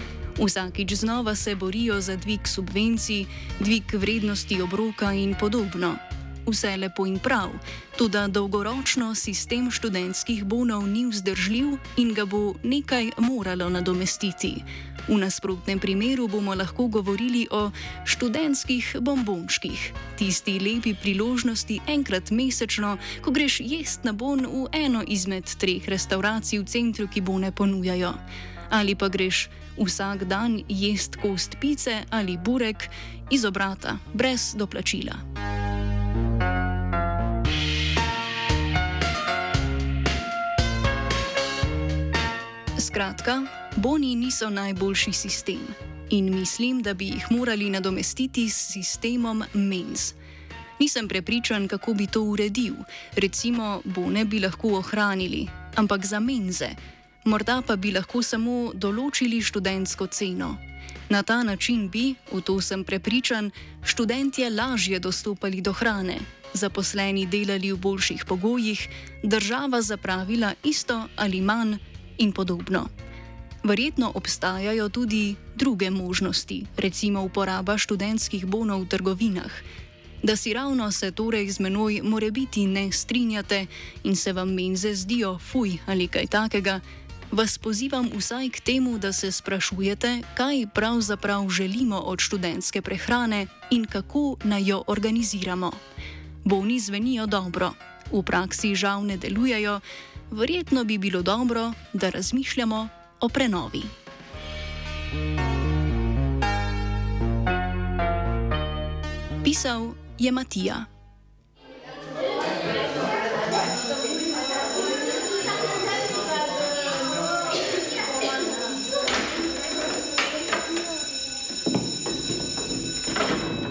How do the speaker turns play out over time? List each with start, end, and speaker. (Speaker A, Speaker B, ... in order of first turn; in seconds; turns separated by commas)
Speaker A: 0.4-28.2, Speaker A: 28.7-35.2, Speaker A: 42.8-50.2, Speaker A: 50.8-72.9, Speaker A: 73.6-79.6, Speaker A: 80.2-95.8, Speaker A: 96.5-103.9, Speaker A: 109.4-110.9